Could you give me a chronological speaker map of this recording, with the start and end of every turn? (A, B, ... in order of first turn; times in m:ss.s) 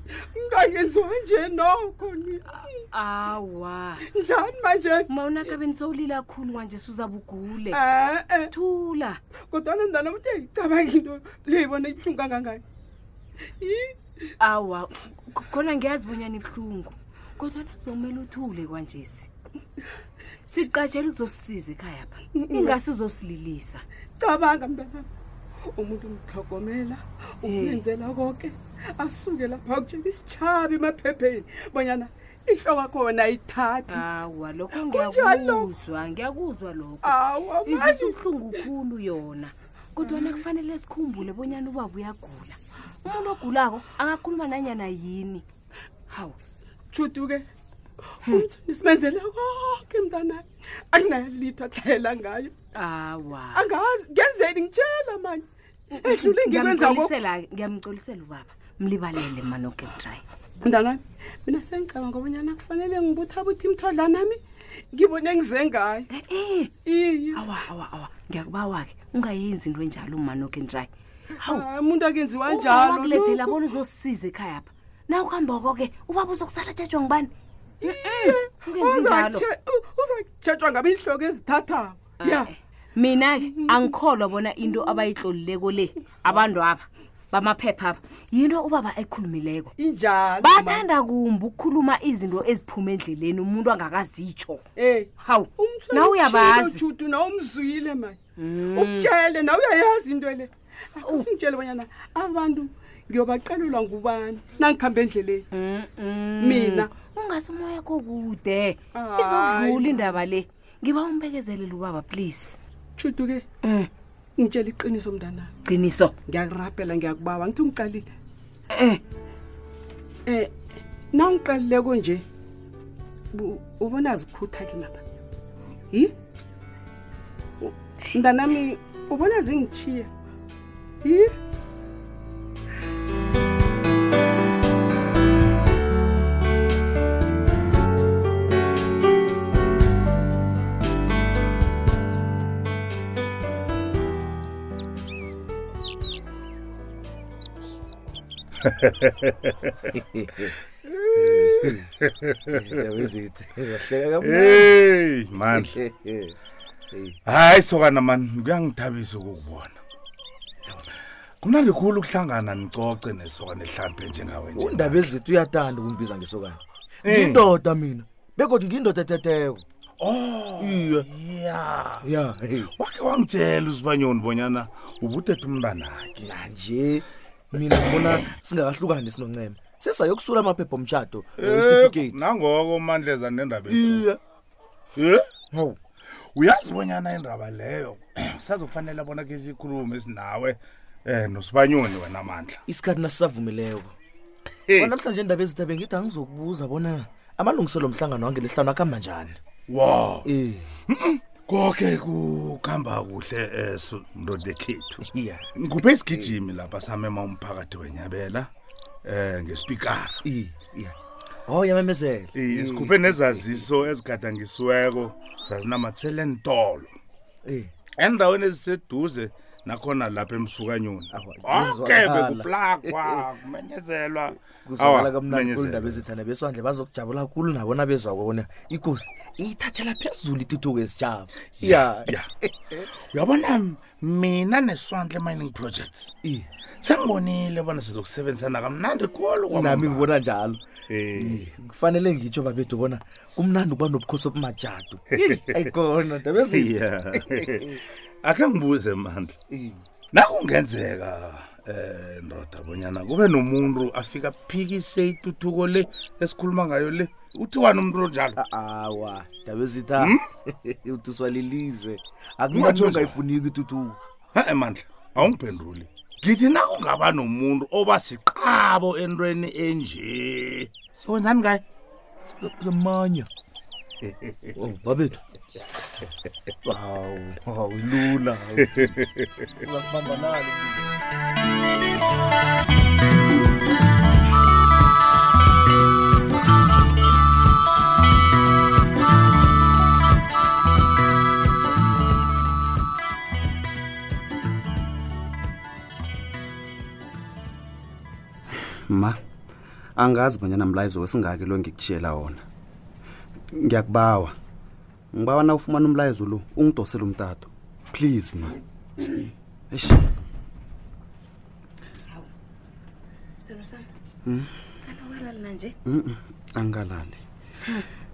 0:00.4-0:02.4 A
0:02.9-0:04.0 B
0:04.1-0:05.5 A
0:05.1-0:07.8 B
0:07.7-0:08.5 A
0:08.5-0:09.2 B
0:09.5-0:12.6 A
0:13.6-0:13.9 A
0:14.4-0:19.3 B
0:20.5-0:23.8 B
0:22.3-0:22.8 A
0:24.2-0:25.0 A
0:25.8-0:34.0 A
0:27.4-0:27.8 B
0:33.9-0:45.4 B
0:34.7-0:35.7 A
0:37.0-0:38.7 A
0:40.0-0:40.4 A
0:46.1-0:46.4 B
0:46.9-0:47.4 A
0:48.3-0:52.5 A
0:52.7-0:53.6 B
0:53.5-0:55.4 A
0:55.9-1:00.2 B
0:55.9-0:57.2 A
1:00.6-1:04.4 A
1:04.9-1:06.1 A
1:06.1-1:06.7 B
1:06.8-1:07.4 A
1:07.3-1:10.9 B
1:11.4-1:13.8 A
1:12.5-1:17.3 B
1:17.8-1:22.5 A
1:17.8-1:19.4 B
1:22.2-1:29.7 B
1:23.4-1:24.0 A
1:24.6-1:25.2 A
1:29.8-1:30.9 A
1:30.4-1:34.6 B
1:34.8-1:45.4 A
1:35.2-1:36.8 B
1:38.4-1:39.1 B
1:45.5-1:52.6 B
1:46.4-1:46.9 A
1:48.9-1:50.2 A
1:53.0-1:53.4 A
1:53.6-1:53.9 B
1:54.4-1:55.5 A
1:55.6-1:56.1 B
1:56.3-1:58.0 A
1:58.7-1:59.0 B
2:01.1-2:02.2 A
2:03.3-2:05.0 A
2:07.6-2:10.1 A
2:11.0-2:11.3 A
2:28.7-2:29.5 C
2:30.0-2:30.5 D
2:31.2-2:31.8 D
2:31.3-2:32.6 C
2:32.5-2:34.8 D
2:34.2-2:35.7 C
2:35.5-2:36.3 D
2:37.2-2:39.8 C
2:41.4-2:45.1 C
2:44.5-2:49.6 D
2:47.0-2:47.5 C
2:50.0-2:52.1 C
2:50.6-2:51.1 D
2:52.0-2:52.7 D
2:52.8-2:56.2 C
2:56.2-3:02.2 D
3:01.4-3:04.1 C
3:03.7-3:04.2 D
3:05.0-3:05.2 C
3:05.5-3:05.8 D
3:06.4-3:12.6 C
3:12.7-3:13.9 D
3:14.7-3:14.9 C
3:14.8-3:19.4 D
3:19.7-3:20.2 C
3:20.2-3:20.7 D
3:20.9-3:25.0 C
3:25.0-3:25.5 D
3:25.6-3:28.5 C
3:26.1-3:26.3 D
3:29.0-3:30.2 C
3:30.2-3:33.6 D
3:32.3-3:36.9 C
3:37.4-3:37.7 D
3:38.0-3:46.0 C
3:41.1-3:43.2 D
3:44.6-3:52.8 D
3:51.6-3:52.3 C
3:53.0-3:56.1 C
3:56.8-4:00.1 C
3:59.5-4:00.6 D
4:00.9-4:01.4 C
4:01.2-4:07.8 D
4:05.2-4:05.7 C
4:06.5-4:07.7 C
4:08.2-4:09.4 C
4:09.5-4:09.8 D
4:10.1-4:18.4 C
4:18.4-4:24.0 D
4:22.5-4:23.2 C
4:24.3-4:31.6 C
4:32.4-4:33.3 D
4:34.6-4:35.2 D
4:36.6-4:39.0 D
4:39.6-4:40.9 D
4:58.6-4:59.2 E
5:00.0-5:02.4 E
5:03.5-5:04.3 E
5:05.1-5:08.6 E
5:09.7-5:10.0 E
5:13.4-5:13.9 B
5:14.2-5:14.5 E
5:14.9-5:15.7 B
5:15.8-5:17.2 E